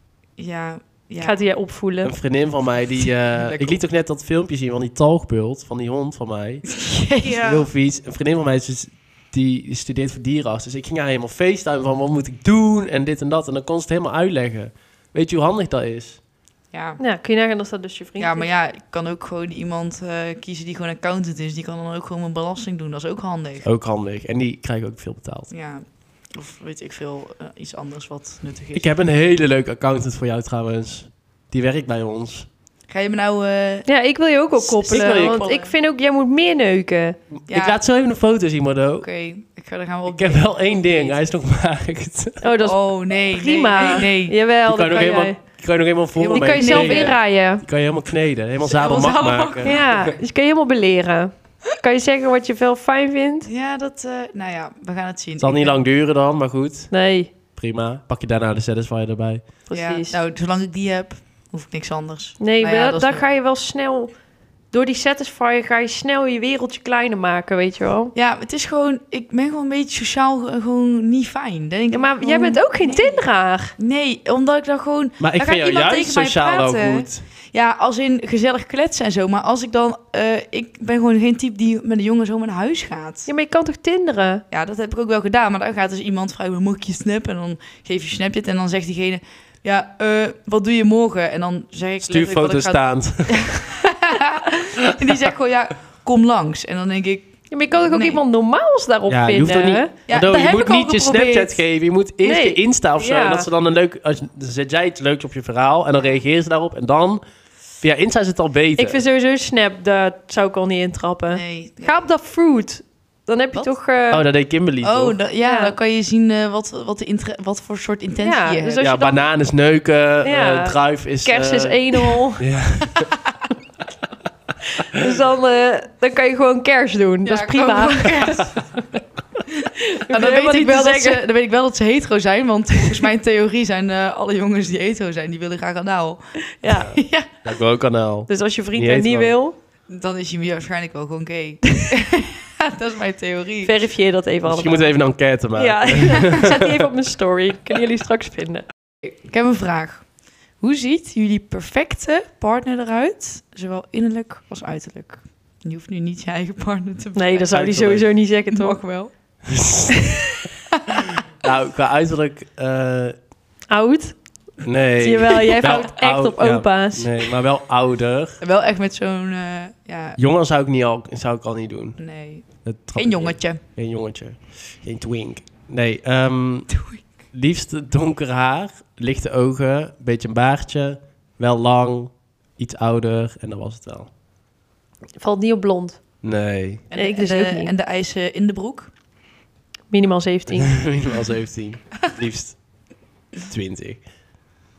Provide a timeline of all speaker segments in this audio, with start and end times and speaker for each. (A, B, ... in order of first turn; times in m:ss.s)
0:00.4-0:01.3 A
0:01.2-0:02.1 B
0:02.0-0:06.8 C
0:03.0-0:03.8 A
0:06.7-0:07.4 A
0:07.2-0:07.6 B
0:07.4-0:16.2 C
0:16.7-0:17.0 A
0:17.0-0:18.5 B
0:18.2-0:23.6 A
0:23.6-0:25.5 C
0:25.5-0:28.9 A
0:28.7-0:32.5 C
0:32.9-0:33.9 A
0:33.8-0:37.2 B
0:34.6-0:35.7 A
0:34.9-0:35.5 C
0:37.3-0:39.1 C
0:37.5-0:37.8 A
0:39.0-0:41.2 A
0:40.1-0:42.4 C
0:42.4-0:45.4 B
0:42.6-0:44.4 A
0:44.6-0:50.1 C
0:46.2-0:47.2 A
0:46.3-0:47.6 B
0:48.6-0:49.9 A
0:49.6-0:53.5 B
0:53.4-0:55.8 A
0:55.4-0:56.9 C
0:56.9-0:57.3 B
0:57.5-0:59.4 C
0:59.7-1:00.2 B
0:59.7-1:03.2 A
1:02.4-1:04.1 B
1:04.7-1:08.1 B
1:08.1-1:13.2 A
1:11.9-1:13.7 B
1:13.8-1:23.3 A
1:15.2-1:17.2 C
1:23.2-1:24.4 B
1:24.5-1:38.2 A
1:32.0-1:33.7 C
1:34.9-1:35.2 C
1:37.5-1:39.9 B
1:39.1-1:47.2 C
1:40.1-1:41.6 A
1:42.2-1:43.5 B
1:47.8-1:49.0 C
1:48.8-1:54.2 B
1:51.3-1:52.0 A
1:54.1-1:55.2 C
1:54.8-1:58.8 A
1:55.4-1:55.7 B
1:58.2-1:59.2 B
1:58.8-2:03.1 C
2:00.2-2:02.4 B
2:04.7-2:08.6 B
2:07.2-2:08.6 A
2:09.5-2:16.2 A
2:09.8-2:11.2 B
2:16.5-2:16.9 B
2:16.7-2:19.3 C
2:16.7-2:17.4 A
2:18.3-2:19.5 B
2:19.9-2:23.7 A
2:23.6-2:24.9 B
2:24.4-2:26.8 C
2:25.5-2:28.6 B
2:29.0-2:30.0 A
2:30.6-2:37.5 A
2:37.1-2:38.8 B
2:37.5-2:38.1 C
2:38.5-2:39.1 A
2:39.5-2:40.0 C
2:40.9-2:43.1 C
2:43.7-2:44.2 B
2:44.6-2:48.4 C
2:45.0-2:47.3 B
2:48.4-2:50.2 A
2:50.2-2:52.0 C
2:52.0-2:53.6 A
2:52.6-2:56.8 C
2:57.3-3:04.1 C
3:05.2-3:06.0 B
3:06.2-3:06.8 C
3:06.9-3:08.9 A
3:06.9-3:07.7 B
3:09.9-3:10.8 B
3:10.6-3:12.6 C
3:13.4-3:14.0 C